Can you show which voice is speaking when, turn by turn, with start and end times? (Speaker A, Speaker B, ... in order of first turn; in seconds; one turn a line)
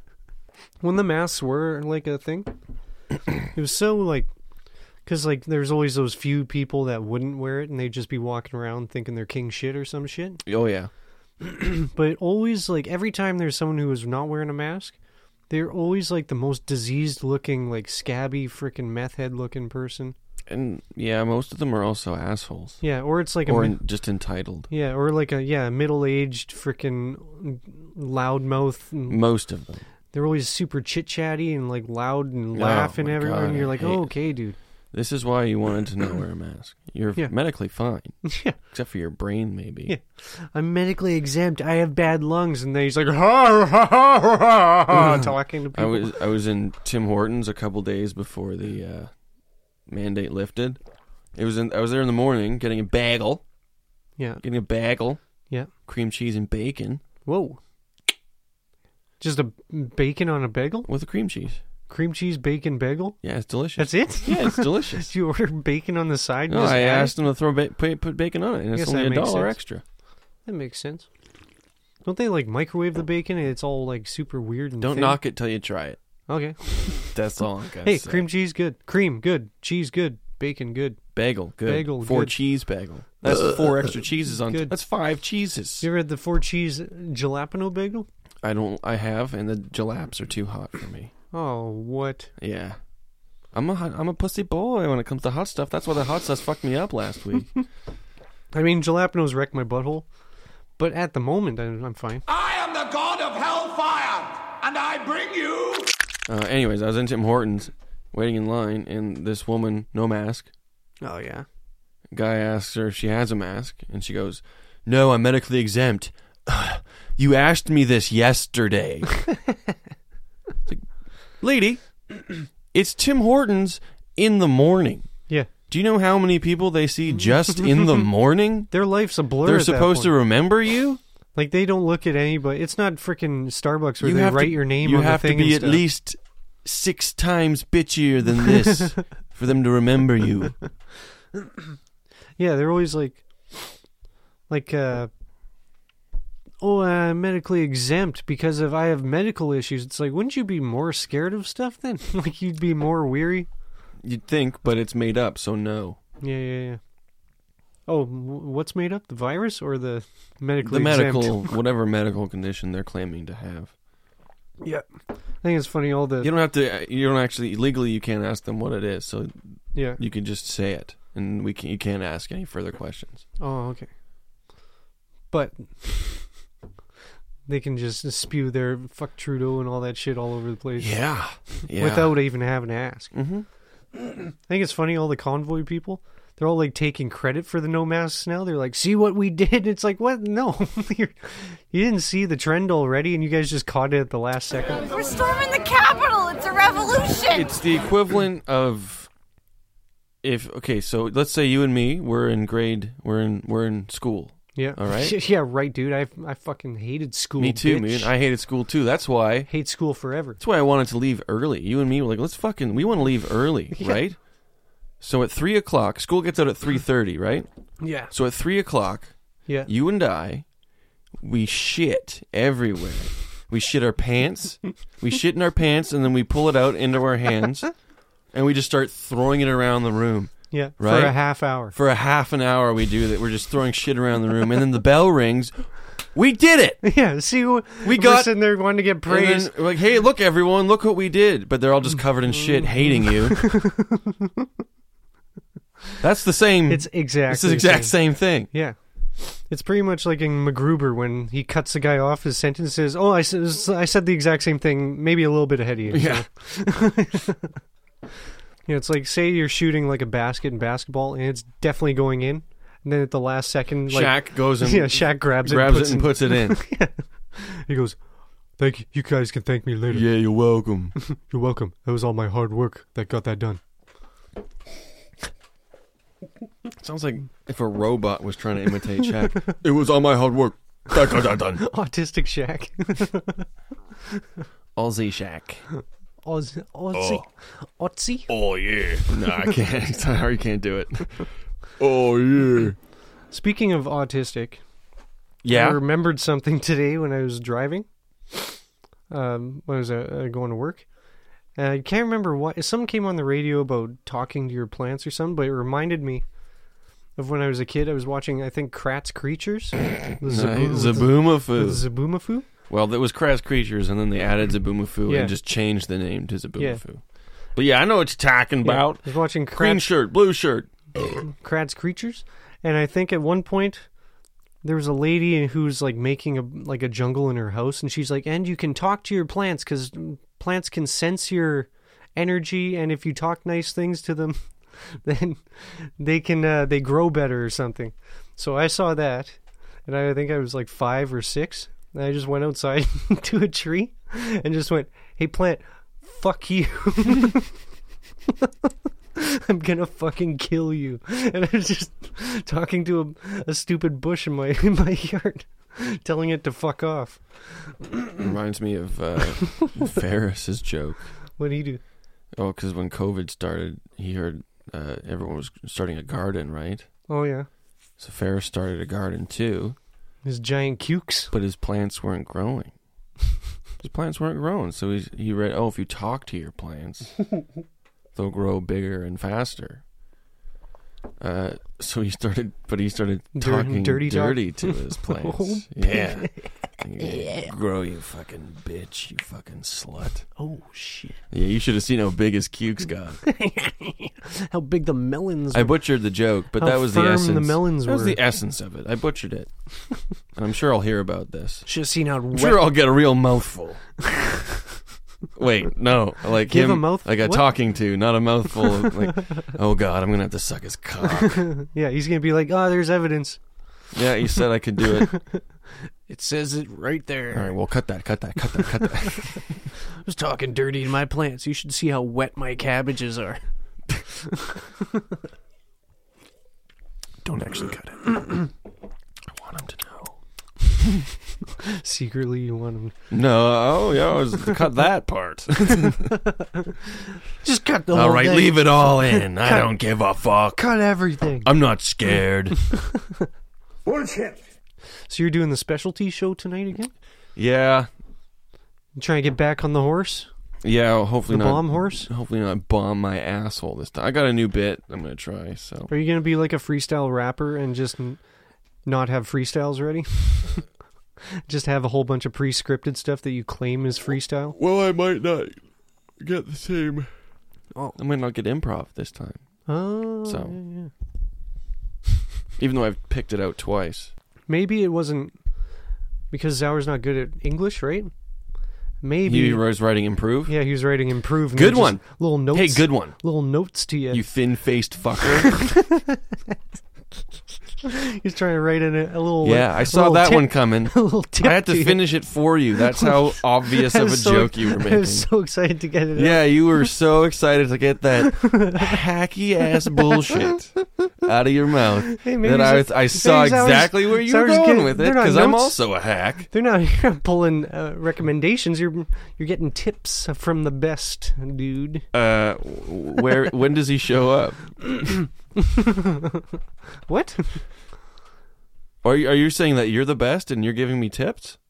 Speaker A: 0.8-2.5
Speaker A: 3.5-4.3
Speaker A: 5.1-10.4
Speaker B: 10.4-10.9
Speaker A: 11.4-15.0
Speaker A: 15.5-20.1
Speaker B: 20.5-22.8
Speaker A: 22.8-23.8
Speaker B: 23.5-24.7
Speaker A: 24.7-29.2
Speaker B: 29.1-29.8
Speaker A: 30.1-34.6
Speaker B: 32.5-34.1
Speaker B: 34.9-40.0
Speaker A: 38.2-38.6
Speaker A: 39.9-46.1
Speaker B: 45.7-49.1
Speaker B: 49.9-50.8
Speaker B: 51.3-53.4
Speaker A: 54.2-54.4
Speaker B: 54.4-55.2
Speaker B: 55.9-57.0
Speaker A: 57.2-57.6
Speaker A: 59.2-60.9
Speaker B: 60.9-61.6
Speaker A: 61.9-63.2
Speaker B: 63.2-65.1
Speaker A: 63.8-67.2
Speaker B: 66.5-69.8
Speaker A: 68.7-69.6
Speaker A: 70.5-71.1
Speaker A: 72.0-75.2
Speaker B: 74.8-76.0
Speaker A: 76.3-77.1
Speaker B: 77.1-78.3
Speaker A: 77.8-81.0
Speaker B: 81.2-85.9
Speaker A: 81.6-82.4
Speaker A: 84.5-84.8
Speaker A: 85.8-88.1
Speaker B: 88.4-91.1
Speaker A: 91.3-92.3
Speaker B: 92.4-92.8
Speaker B: 93.5-97.5
Speaker A: 98.5-100.1
Speaker A: 100.8-102.2
Speaker C: 102.3-105.9
Speaker B: 106.3-110.5
Speaker A: 111.0-111.5
Speaker B: 112.1-119.1
Speaker B: 121.4-121.8
Speaker B: 122.7-125.1
Speaker B: 125.7-128.7
Speaker A: 128.7-130.1
Speaker B: 129.4-131.0
Speaker A: 131.3-135.8
Speaker B: 134.0-140.6
Speaker A: 142.4-143.7
Speaker A: 144.5-145.1
Speaker A: 146.6-153.5
Speaker B: 154.0-156.0
Speaker A: 156.2-156.8
Speaker A: 157.9-161.5
Speaker B: 160.6-163.7
Speaker A: 165.4-166.3
Speaker B: 166.2-169.4
Speaker A: 169.7-170.0
Speaker B: 170.0-173.2
Speaker A: 173.4-173.9
Speaker A: 175.3-176.2
Speaker A: 177.5-181.0
Speaker B: 180.8-182.2
Speaker A: 181.7-183.1
Speaker B: 183.1-183.5
Speaker A: 184.5-194.9
Speaker D: 194.9-197.4
Speaker B: 197.2-199.1
Speaker B: 200.2-205.1
Speaker A: 204.6-208.1
Speaker B: 207.4-209.5
Speaker A: 209.5-210.4
Speaker B: 210.4-214.2
Speaker B: 215.0-217.5
Speaker A: 217.8-218.1
Speaker B: 218.1-219.1
Speaker B: 219.7-220.4
Speaker B: 221.2-227.7
Speaker B: 228.3-235.6
Speaker A: 230.5-231.8
Speaker B: 236.1-236.8
Speaker A: 236.8-239.6
Speaker B: 237.8-238.3
Speaker B: 239.1-243.6
Speaker A: 243.1-244.4
Speaker B: 246.0-248.5
Speaker A: 246.7-257.5
Speaker B: 255.9-256.3
Speaker A: 258.7-268.0
Speaker B: 263.9-266.6
Speaker A: 268.6-270.1
Speaker B: 269.9-270.9
Speaker A: 271.0-273.6
Speaker B: 276.8-281.6
Speaker A: 281.6-283.5
Speaker B: 284.8-285.6
Speaker A: 286.2-288.3
Speaker B: 286.9-287.3
Speaker B: 288.3-292.8
Speaker A: 293.3-294.6
Speaker B: 295.4-295.8
Speaker A: 295.5-298.4
Speaker A: 299.1-300.9
Speaker A: 301.6-306.2
Speaker A: 307.2-312.5
Speaker B: 310.2-311.9
Speaker B: 312.7-317.0
Speaker A: 315.1-315.3
Speaker A: 316.6-316.8
Speaker B: 317.6-320.7
Speaker A: 318.6-319.9
Speaker A: 321.2-323.9
Speaker A: 324.6-347.5
Speaker A: 349.2-358.2
Speaker B: 358.2-361.1
Speaker A: 361.4-361.8
Speaker B: 362.3-366.9
Speaker A: 367.1-367.5
Speaker B: 368.0-369.8
Speaker A: 370.2-371.3
Speaker B: 371.3-372.7
Speaker B: 373.8-377.2
Speaker B: 378.1-379.8
Speaker B: 381.2-390.3
Speaker A: 383.3-386.4
Speaker A: 390.4-391.2
Speaker B: 391.3-393.2
Speaker A: 393.2-395.8
Speaker B: 395.5-399.5
Speaker A: 396.6-398.2
Speaker B: 400.4-401.7
Speaker A: 401.7-402.7
Speaker B: 402.3-403.8
Speaker B: 405.4-411.4
Speaker A: 406.5-407.5
Speaker A: 411.2-413.4
Speaker B: 413.9-415.2
Speaker A: 415.1-415.4
Speaker A: 416.1-417.5
Speaker B: 417.3-419.4
Speaker A: 420.0-423.4
Speaker A: 423.9-424.6
Speaker B: 427.2-428.4
Speaker B: 429.3-430.2
Speaker A: 431.7-432.9
Speaker B: 433.1-436.1
Speaker A: 435.8-436.7
Speaker A: 437.4-439.7
Speaker B: 437.9-440.6
Speaker A: 440.6-441.5
Speaker B: 441.4-442.6
Speaker A: 445.1-446.9
Speaker B: 447.4-447.9
Speaker A: 449.0-450.3
Speaker B: 450.6-455.9
Speaker A: 451.3-452.1
Speaker A: 455.9-458.2
Speaker A: 458.9-460.6
Speaker A: 461.5-464.6
Speaker B: 464.6-465.6
Speaker B: 466.2-467.1
Speaker B: 468.0-469.4
Speaker A: 469.7-470.9
Speaker B: 470.2-470.6
Speaker B: 472.6-474.1
Speaker A: 474.5-475.4
Speaker A: 476.3-478.1
Speaker A: 479.0-479.7
Speaker B: 479.2-480.6
Speaker A: 480.5-484.2
Speaker B: 481.5-483.2
Speaker B: 484.1-485.7
Speaker A: 485.5-486.2
Speaker A: 487.8-492.1
Speaker B: 489.4-495.3
Speaker A: 492.8-496.6
Speaker B: 496.2-506.5
Speaker A: 498.3-499.0
Speaker A: 502.2-505.8
Speaker A: 506.5-512.1
Speaker B: 512.1-514.8
Speaker A: 515.6-516.4
Speaker A: 517.1-517.6
Speaker B: 519.0-521.6